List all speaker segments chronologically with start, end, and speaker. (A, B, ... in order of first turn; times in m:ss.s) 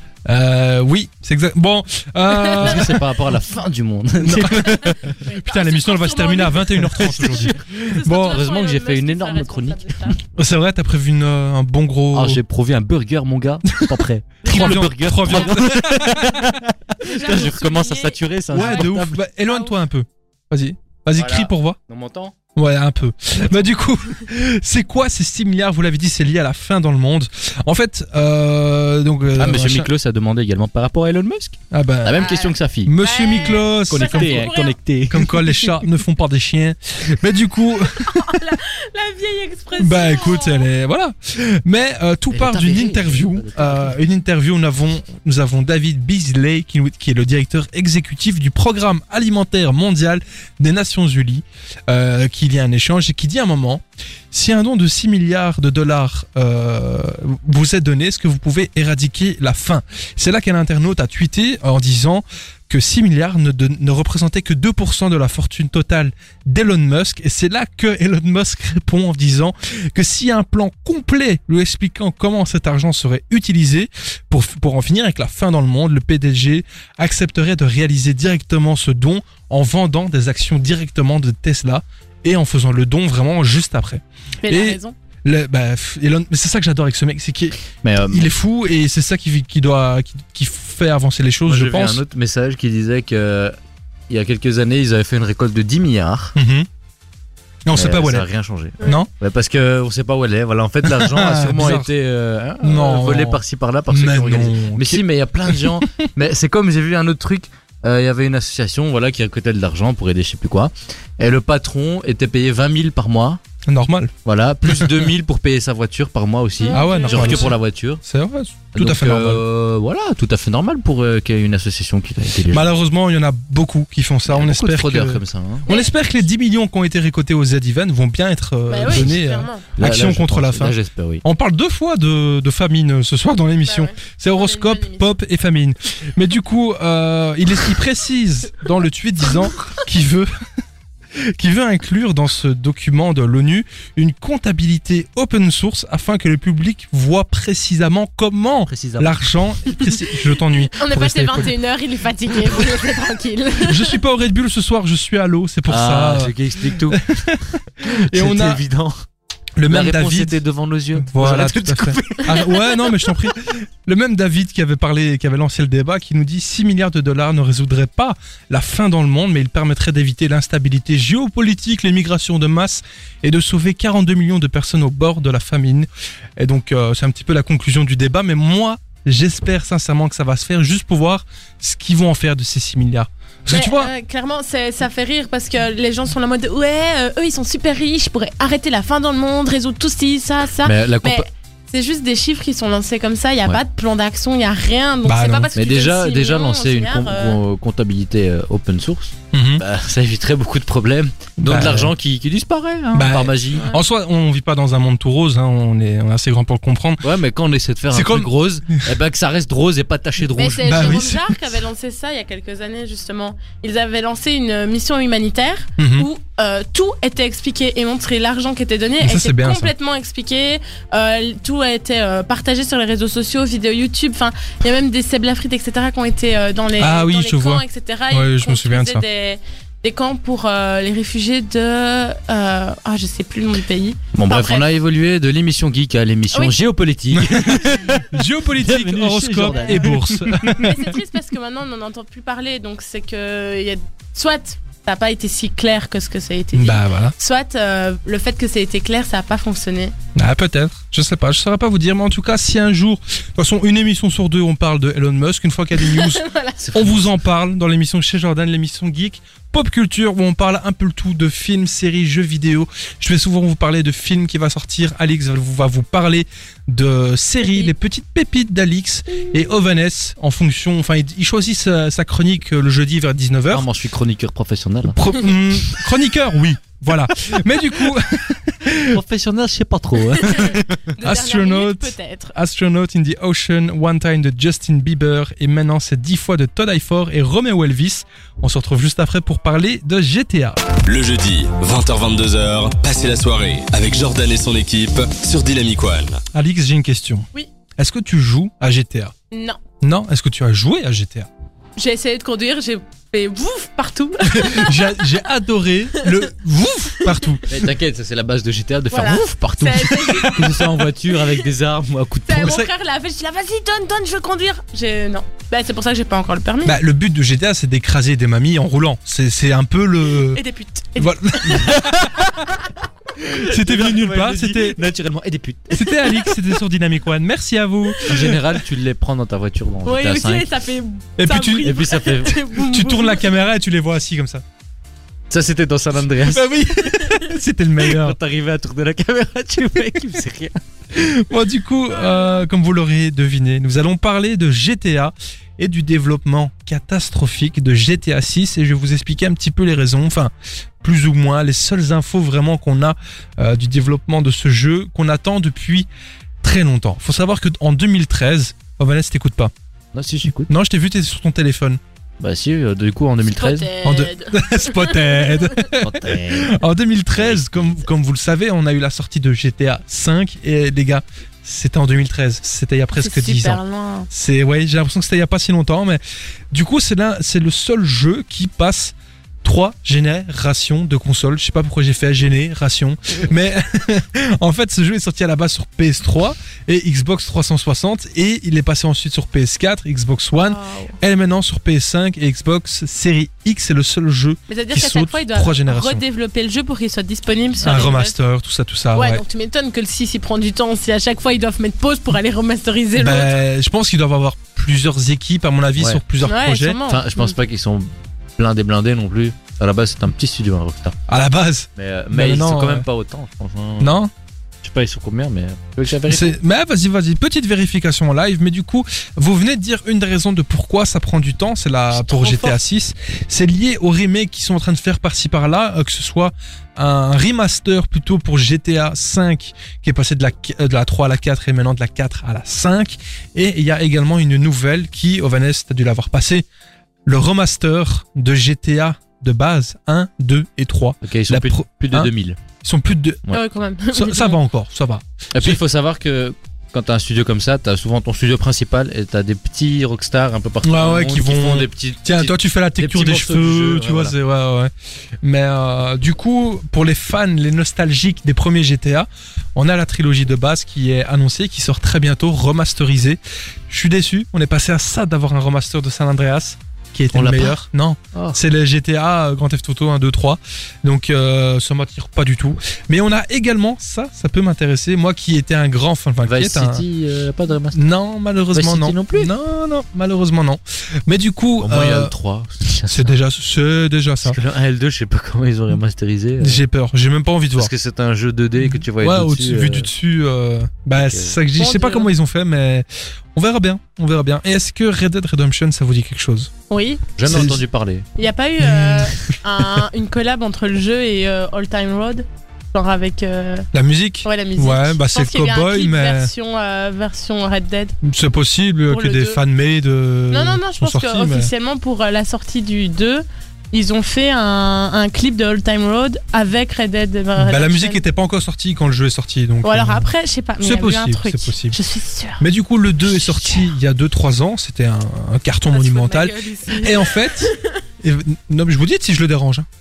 0:00.2-0:03.1 A
0:02.3-0:02.6 B
0:02.5-0:05.0 C
0:04.2-0:08.4 A
0:04.8-0:10.2 B
0:06.9-0:10.2 C
0:10.3-0:12.4 A
0:12.1-0:19.2 C
0:13.8-0:16.6 A
0:14.5-0:15.6 B
0:17.0-0:18.9 B
0:18.5-0:21.8 A
0:19.4-0:19.7 B
0:21.1-0:22.3 C
0:22.5-0:29.9 A
0:29.4-0:32.9 C
0:31.7-0:32.3 A
0:32.1-0:34.8 B
0:32.8-0:34.5 A
0:33.4-0:35.8 C
0:35.1-0:38.4 A
0:38.0-0:40.7 B
0:39.8-1:32.0 A
0:42.3-0:44.0 C
1:24.4-1:24.9 B
1:27.8-1:28.3 C
1:31.5-1:33.5 C
1:34.1-1:36.3 C
1:36.4-1:36.7 A
1:37.6-1:38.3 A
1:37.7-1:53.4 C
1:38.8-1:39.1 A
1:40.8-1:41.9 A
1:42.6-1:46.0 A
1:53.6-1:54.1 A
1:54.2-1:58.0 C
1:54.7-1:55.0 A
1:56.6-1:57.6 B
1:56.7-1:59.4 A
1:58.7-2:02.7 C
2:02.5-2:20.3 A
2:04.3-2:05.7 C
2:05.7-2:06.0 B
2:08.7-2:09.6 B
2:09.8-2:11.2 C
2:13.6-2:15.2 B
2:21.2-2:31.5 A
2:28.7-2:29.2 C
2:30.7-2:34.0 B
2:33.6-2:38.6 A
2:35.7-2:37.1 C
2:37.8-2:38.9 C
2:39.6-2:40.4 A
2:39.7-2:42.9 C
2:41.0-3:03.9 A
3:03.5-3:17.4 B
3:10.6-3:11.2 C
3:15.0-3:15.5 A
3:15.5-3:23.7 C
3:19.3-3:19.6 A
3:21.4-3:21.9 A
3:22.9-3:27.0 A
3:27.0-3:31.0 C
3:27.9-3:28.3 A
3:30.3-3:54.7 B
3:30.6-3:31.4 A
3:35.8-3:36.1 A
3:39.0-3:39.7 A
3:46.8-3:49.0 A
3:54.1-4:00.7 C
3:57.1-4:00.9 A
3:59.5-3:59.8 B
4:00.5-4:09.9 B
4:06.5-4:07.1 A
4:10.2-4:33.6 A
4:15.8-4:16.6 B
4:16.6-4:17.1 C
4:33.5-4:35.0 C
4:34.9-4:39.0 A
4:38.9-4:40.8 C
4:40.2-4:42.3 B
4:41.0-4:50.7 A
4:50.8-4:56.2 D
4:56.3-4:59.1 A
4:59.3-4:59.6 B
4:59.8-5:01.3 A
5:01.8-5:05.0 B
5:04.2-5:07.5 A
5:07.0-5:07.4 B
5:07.5-5:12.6 C
5:08.9-5:10.7 B
5:09.9-5:10.5 A
5:12.2-5:16.8 B
5:12.4-5:12.7 A
5:16.6-5:20.4 A
5:20.3-5:21.9 B
5:21.0-5:22.5 A
5:23.2-5:24.8 A
5:23.2-5:25.8 C
5:25.7-5:28.4 A
5:28.0-5:30.5 C
5:29.8-5:33.3 B
5:31.2-5:31.8 A
5:31.6-5:32.4 C
5:32.5-5:34.4 A
5:35.3-5:36.5 C
5:36.2-5:38.2 A
5:36.9-5:37.2 B
5:37.8-5:40.6 C
5:40.9-5:55.9 A
5:41.9-5:42.4 B
5:56.4-5:59.5 A
5:59.9-6:00.5 C
6:00.4-6:01.8 A
6:02.2-6:03.7 C
6:03.2-6:05.6 B
6:03.8-6:36.0 A
6:05.8-6:06.6 C
6:07.2-6:07.8 C
6:13.0-6:14.1 B
6:30.4-6:31.0 B
6:34.5-6:38.1 B
6:37.6-6:39.2 A
6:38.9-6:43.4 B
6:43.0-6:46.8 A
6:46.2-6:47.3 B
6:46.9-6:51.0 C
6:51.1-6:52.8 A
6:51.8-6:54.0 C
6:53.8-6:54.1 A
6:54.6-6:56.4 C
6:56.1-7:16.4 A
7:02.0-7:02.5 C
7:17.0-7:23.2 A
7:21.0-7:22.4 C
7:23.3-7:24.4 B
7:23.9-7:25.6 A
7:25.3-7:34.1 C
7:30.6-7:34.7 A
7:35.2-7:56.8 A
7:47.1-7:47.6 C
7:48.1-7:48.4 C
7:56.2-7:57.8 C
7:57.7-8:02.1 A
7:58.5-7:59.3 C
8:01.6-8:03.2 C
8:02.9-8:04.4 A
8:04.2-8:06.6 C
8:06.4-8:07.7 A
8:07.6-8:09.9 C
8:08.6-8:16.5 A
8:10.9-8:11.4 C
8:11.6-8:12.1 B
8:16.7-8:17.0 B
8:17.2-8:18.1 C
8:17.2-8:17.6 A
8:18.2-8:23.7 B
8:18.6-8:19.4 A
8:23.7-8:26.3 A
8:24.2-8:27.9 B
8:28.0-8:31.5 A
8:28.9-8:29.4 B
8:30.3-8:38.0 B
8:37.4-8:41.8 A
8:39.6-8:42.4 B
8:42.4-8:49.7 A
8:45.7-8:47.8 B